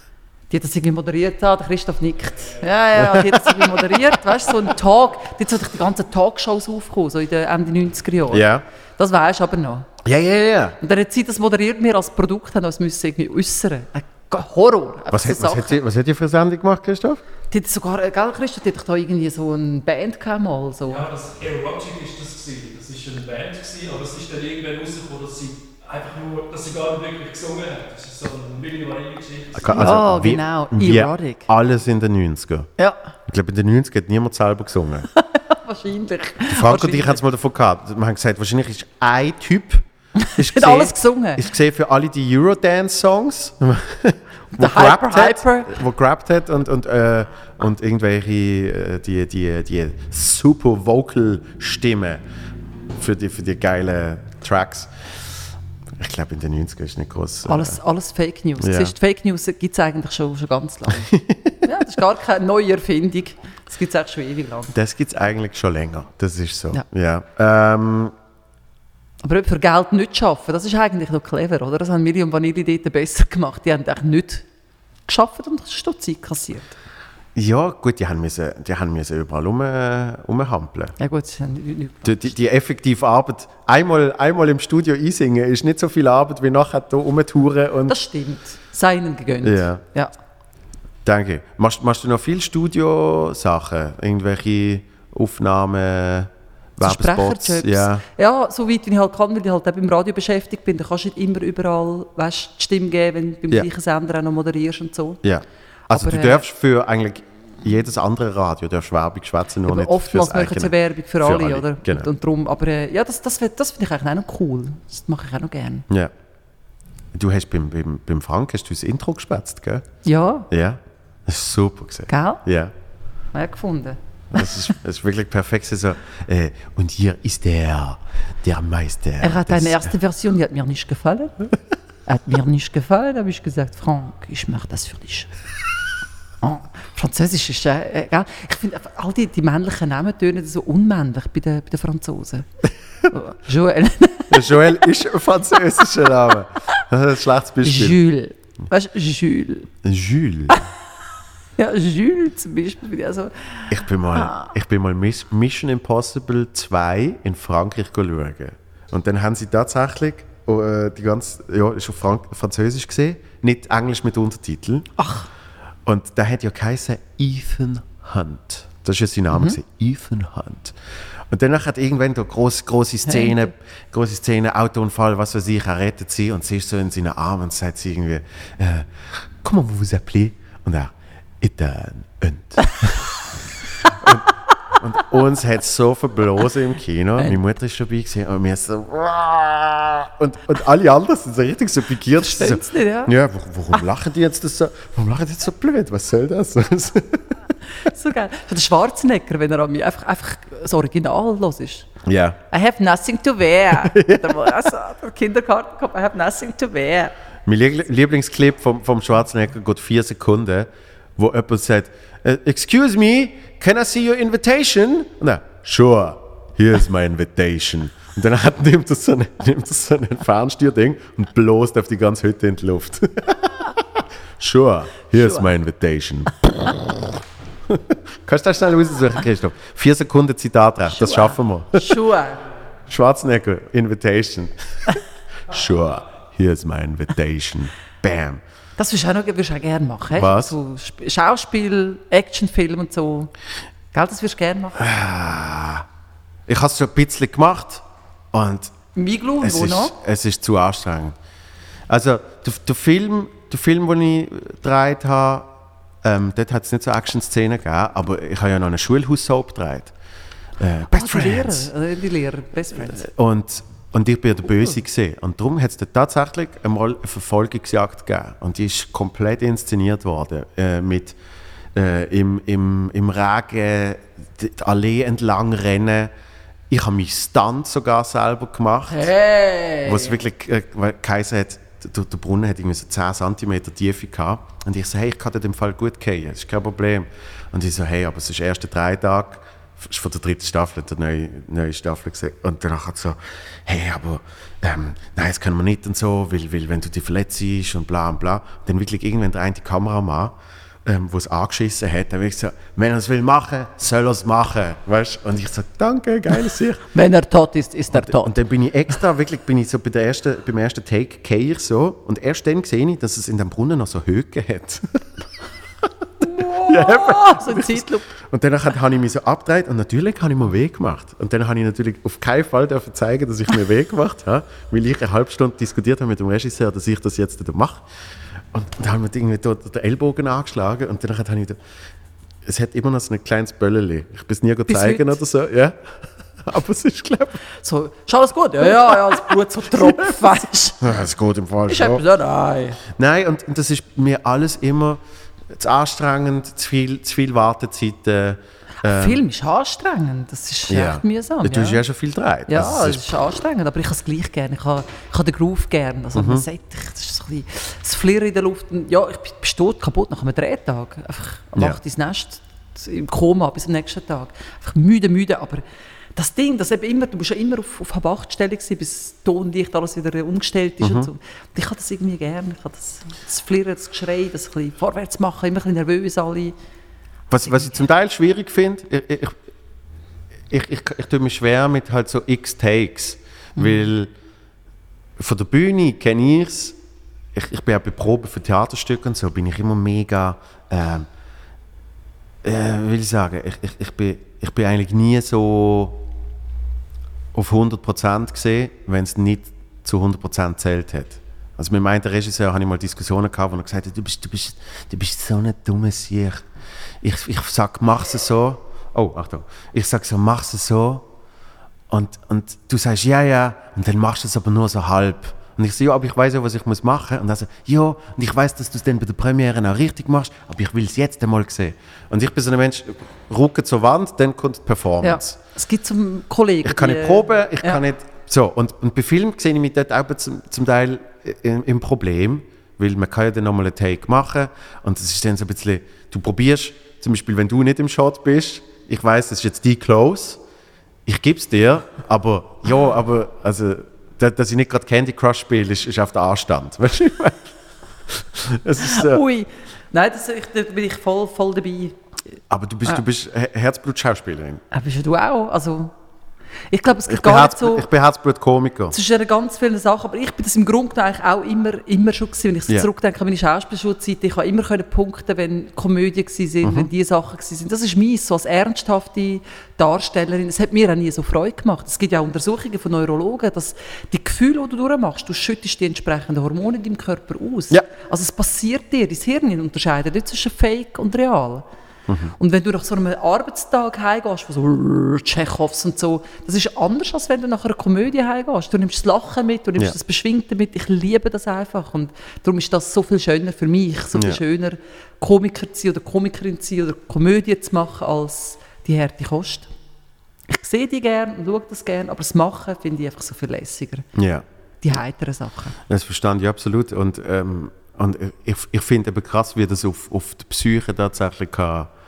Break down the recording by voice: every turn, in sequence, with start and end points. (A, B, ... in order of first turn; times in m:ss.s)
0:00.5-0:09.9 A
0:02.9-0:03.6 B
0:08.3-0:08.6 B
0:10.0-0:10.8 B
0:10.8-0:15.8 A
0:15.1-0:17.2 B
0:17.5-0:21.1 A
0:20.9-0:30.0 C
0:29.6-0:32.7 B
0:29.7-0:31.5 A
0:33.3-0:35.1 B
0:35.1-0:37.2 A
0:36.5-0:52.2 B
0:40.2-0:41.4 A
0:44.5-0:45.8 A
0:53.0-0:54.9 B
0:56.0-0:57.8 B
0:57.4-1:01.1 A
0:58.6-0:58.9 B
1:01.1-1:01.6 B
1:01.6-1:04.7 A
1:04.7-1:08.1 B
1:09.2-1:14.4 A
1:15.1-1:16.7 A
1:17.3-1:20.9 B
1:21.0-1:22.3 A
1:22.0-1:27.9 B
1:27.9-1:30.1 A
1:29.4-1:29.8 B
1:31.0-1:38.0 B
1:36.8-1:45.2 A
1:45.2-1:52.1 B
1:45.9-1:46.4 A
1:49.6-1:55.9 A
1:57.1-1:59.9 B
2:00.0-2:00.5 A
2:00.5-2:02.7 B
2:02.1-2:02.4 A
2:03.3-2:04.7 A
2:04.3-2:09.9 B
2:09.2-2:11.4 A
2:12.0-2:15.3 A
2:16.4-2:22.5 A
2:23.1-2:24.7 A
2:24.3-2:28.0 B
2:27.6-2:29.7 A
2:29.8-2:30.7 B
2:31.6-2:34.5 A
2:33.7-2:44.9 B
2:45.0-2:45.3 A
2:45.8-2:50.8 B
2:49.3-2:49.6 A
2:51.3-3:03.1 B
2:53.0-2:53.4 A
3:03.8-3:17.3 B
3:12.2-3:13.1 A
3:17.8-3:21.9 A
3:22.0-3:22.4 B
3:22.5-3:27.1 A
3:23.8-3:24.6 B
3:27.4-3:47.2 B
3:45.2-3:45.5 A
3:47.7-3:52.0 B
3:50.9-3:52.4 A
3:52.9-3:54.9 B
3:55.5-3:58.4 B
3:58.8-4:03.3 A
4:00.1-4:00.6 B
4:03.9-4:04.8 A
4:04.8-4:05.8 B
4:06.5-4:08.7 B
4:08.9-4:09.9 A
4:09.4-4:11.2 B
4:11.9-4:15.5 B
4:16.0-4:19.9 B
4:20.6-4:21.7 B
4:20.9-4:23.0 A
4:22.9-4:31.2 B
4:31.7-4:36.1 B
4:36.7-4:39.1 B
4:38.9-4:40.2 A
4:39.8-5:06.9 B
5:06.9-5:08.3 A
5:07.9-5:15.0 B
5:16.2-5:18.0 A
5:16.3-5:27.8 B
5:28.5-5:31.6 B
5:32.4-5:35.8 B
5:34.7-5:35.2 A
5:36.4-5:37.4 B
5:37.5-5:41.0 A
5:39.8-5:40.1 B
5:40.8-5:42.0 B
5:41.7-5:42.8 A
5:43.0-5:45.0 B
5:45.5-5:49.2 B
5:48.8-5:51.8 A
5:50.7-5:53.1 B
5:52.5-6:05.6 A
5:56.1-5:56.4 B
6:06.1-6:16.5 A
6:10.8-6:11.1 B
6:17.3-6:19.4 B
6:20.5-6:24.1 B
6:23.6-6:23.8 A
6:25.2-6:26.8 B
6:27.3-6:31.1 B
6:32.4-6:36.0 B
6:37.3-6:46.4 B
6:47.0-6:51.0 B
6:51.9-7:05.4 B
7:05.0-7:07.8 A
7:06.6-7:20.4 B
7:21.0-7:27.5 B
7:28.1-7:29.2 B
7:28.8-7:32.0 A
7:32.5-7:34.6 B
7:34.7-7:35.9 A
7:36.7-7:37.9 A
7:37.0-7:39.0 B
7:38.9-8:01.6 A
7:46.6-7:46.9 B
8:02.1-8:02.3 B
8:02.4-8:19.7 A
8:14.1-8:14.4 B
8:20.5-8:24.1 A
8:24.1-8:24.4 B
8:24.8-8:25.8 A
8:25.9-8:31.9 B